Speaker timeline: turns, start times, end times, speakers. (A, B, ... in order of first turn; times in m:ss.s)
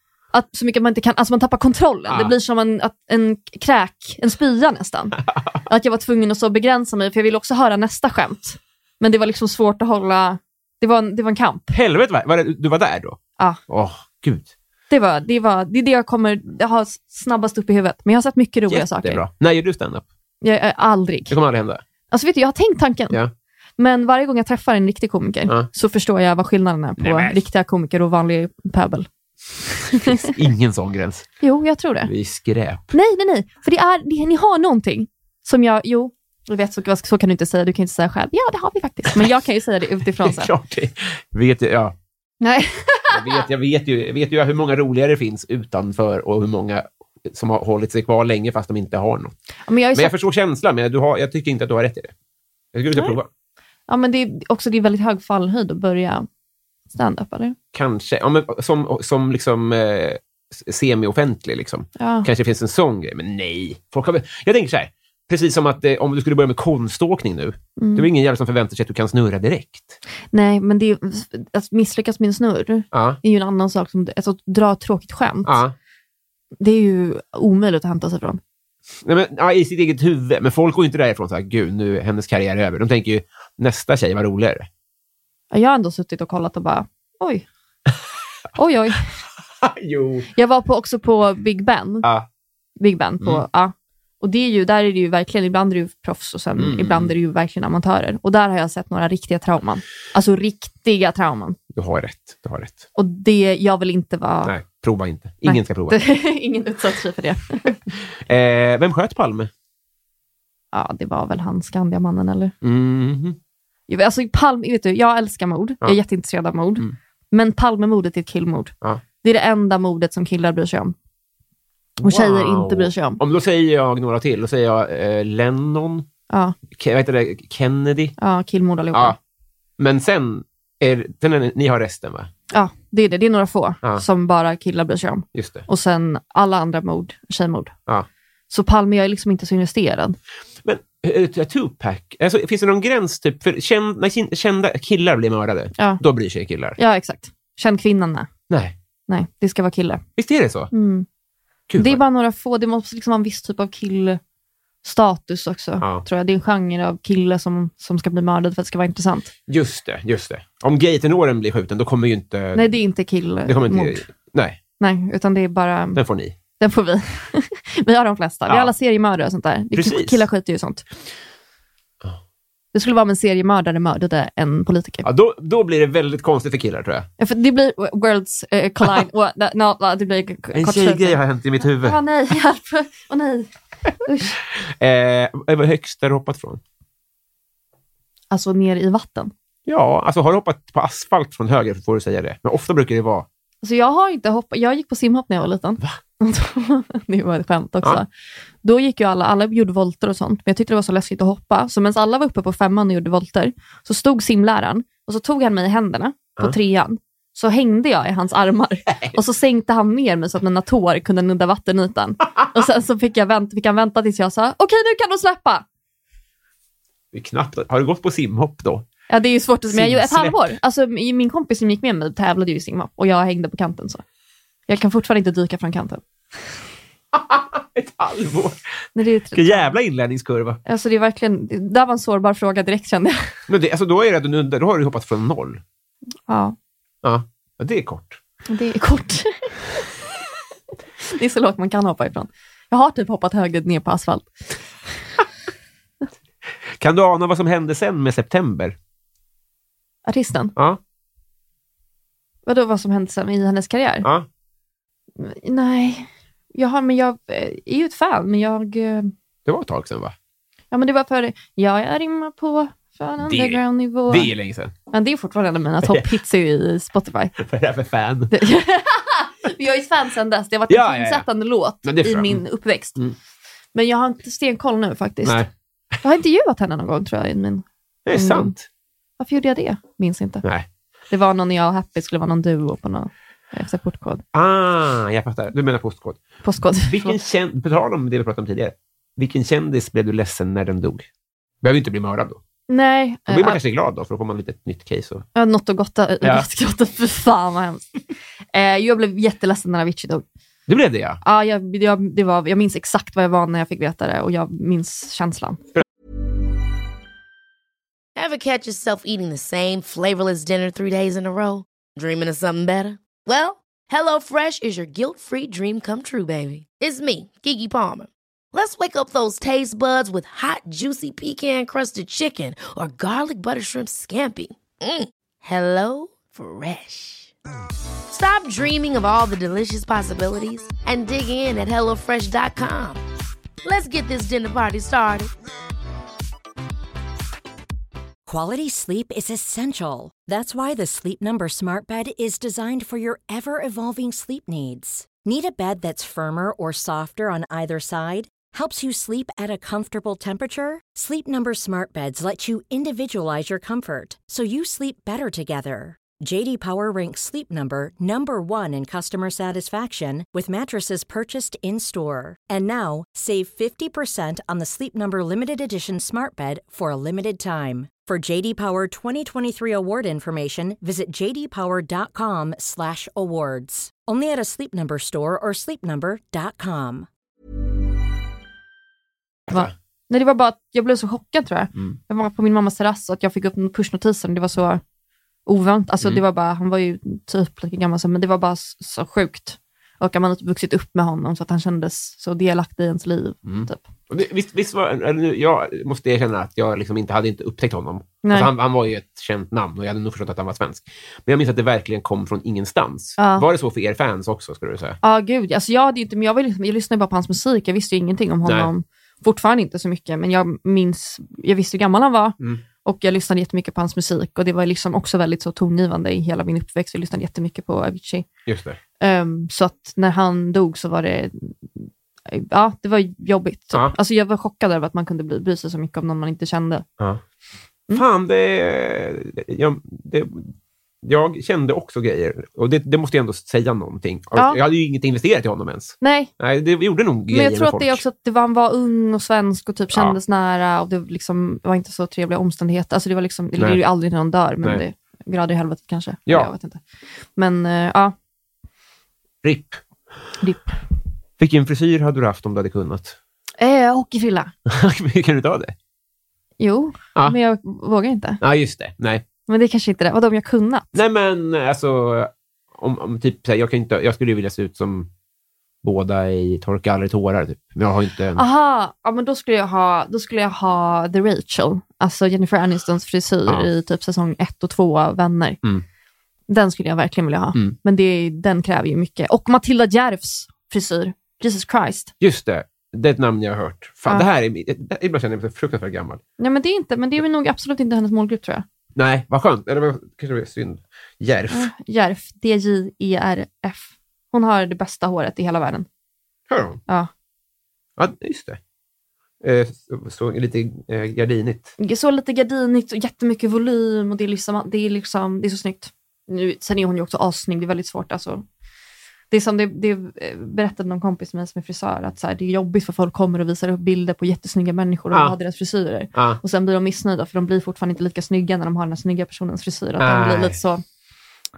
0:00.3-0:11.7 A
0:02.1-0:02.3 B
0:11.7-0:14.5 B
0:14.9-0:19.2 A
0:18.7-0:20.0 B
0:20.4-0:21.4 A
0:21.3-0:21.8 B
0:22.1-0:23.2 A
0:23.8-0:29.1 A
0:27.0-0:27.4 B
0:29.6-0:30.4 A
0:29.9-0:31.3 B
0:31.4-0:32.1 A
0:32.1-0:32.9 B
0:32.9-0:40.5 A
0:40.2-0:42.0 B
0:42.4-0:43.4 A
0:43.1-0:49.4 B
0:49.7-0:50.1 A
0:49.9-0:52.1 B
0:52.7-0:53.3 B
0:53.9-0:56.3 A
0:56.9-0:57.6 A
0:57.7-1:10.0 B
1:02.0-1:02.3 A
1:07.8-1:08.1 A
1:10.3-1:15.6 A
1:12.9-1:13.2 B
1:15.4-1:15.7 B
1:16.6-1:18.4 A
1:19.0-1:24.7 B
1:25.5-1:27.4 A
1:28.6-1:29.1 A
1:29.6-1:30.3 B
1:30.3-1:32.1 A
1:32.0-1:32.3 B
1:32.8-1:41.6 A
1:36.6-1:37.1 B
1:41.7-1:42.8 B
1:43.0-1:44.5 A
1:44.4-1:46.0 B
1:45.4-1:47.8 A
1:48.2-1:49.5 B
1:50.7-1:52.5 A
1:52.6-1:53.4 B
1:53.9-2:00.9 A
2:02.0-2:06.1 B
2:02.0-2:03.2 A
2:06.3-2:06.6 A
2:06.7-2:08.2 B
2:08.2-2:09.2 A
2:08.9-2:09.2 B
2:09.8-2:12.3 B
2:12.5-2:17.7 A
2:15.3-2:15.6 B
2:18.5-2:20.2 A
2:20.6-2:26.8 B
2:25.8-2:26.0 A
2:26.8-2:28.3 A
2:28.5-2:28.7 B
2:29.1-2:30.0 A
2:30.2-2:30.7 B
2:30.7-2:31.0 A
2:31.7-2:32.0 B
2:31.8-2:34.2 A
2:34.8-2:39.3 A
2:35.8-2:36.0 B
2:39.5-2:42.8 B
2:42.5-2:44.0 A
2:43.4-2:44.6 B
2:44.8-2:46.0 A
2:45.9-2:46.4 B
2:46.6-2:50.8 A
2:49.7-2:50.2 B
2:52.7-2:55.1 A
2:55.0-2:57.1 B
2:57.2-3:03.5 A
3:00.5-3:02.0 B
3:04.0-3:04.4 A
3:04.6-3:06.6 B
3:08.3-3:09.3 A
3:09.6-3:13.3 B
3:13.6-3:18.1 A
3:18.6-3:35.6 A
3:37.1-3:38.8 B
3:39.1-3:44.0 A
3:39.7-3:40.5 B
3:44.7-3:46.0 A
3:47.1-3:48.6 B
3:49.0-3:49.7 A
3:49.3-3:50.6 B
3:50.6-3:53.3 A
3:53.5-3:55.6 B
3:56.3-3:56.6 A
3:57.0-3:58.2 B
3:58.5-3:59.5 A
4:01.0-4:04.3 A
4:06.7-4:08.8 B
4:10.0-4:10.5 A
4:12.4-4:14.1 A
4:15.2-4:19.1 A
4:19.4-4:20.1 B
4:20.7-4:24.3 A
4:23.2-4:24.7 B
4:24.9-4:27.3 A
4:25.8-4:26.1 B
4:27.4-4:28.3 B
4:28.3-4:33.0 A
4:30.7-4:31.2 B
4:31.8-4:32.4 B
4:33.7-4:35.4 A
4:35.2-4:35.5 B
4:36.0-4:38.5 A
4:38.0-4:38.7 B
4:39.2-4:40.4 A
4:40.4-4:40.7 B
4:41.1-4:44.2 A
4:44.3-4:46.2 B
4:46.4-4:47.2 A
4:46.7-4:51.1 B
4:51.6-4:52.4 B
4:52.7-4:53.6 A
4:53.3-4:55.2 B
4:55.3-4:57.9 A
4:56.2-4:56.5 B
4:58.5-5:00.2 A
5:00.7-5:01.2 B
5:01.2-5:05.6 A
5:08.1-5:27.3 C
5:28.1-5:33.0 C
5:33.6-5:35.3 C
5:38.3-6:17.1 D
6:19.5-6:24.8 A
6:25.4-6:33.8 A
6:33.4-6:45.0 B
6:38.2-6:38.5 A
6:43.2-6:43.5 A
6:45.0-6:58.3 A
6:48.4-6:48.7 B
6:58.5-6:58.8 B
6:59.0-7:06.8 A
7:07.9-7:18.0 B
7:16.0-7:16.3 A
7:17.3-7:26.8 A
7:27.3-7:28.1 A
7:29.4-7:29.8 B
7:30.4-7:30.8 A
7:31.4-7:33.2 B
7:33.6-7:34.5 A
7:34.6-7:35.7 B
7:36.6-7:38.4 A
7:38.4-7:39.2 B
7:39.5-7:41.0 A
7:40.9-7:45.1 B
7:45.8-7:48.4 B
7:48.4-7:55.6 A
7:56.5-8:02.1 A
8:02.2-8:06.2 B
8:06.4-8:08.6 A
8:08.9-8:11.7 B
8:11.5-8:15.9 A
8:16.5-8:16.8 B
8:18.0-8:18.6 B
8:19.4-8:21.7 B
8:21.8-8:28.4 A
8:29.3-8:40.8 A
8:35.1-8:35.4 B
8:36.1-8:36.4 B
8:40.0-8:40.6 B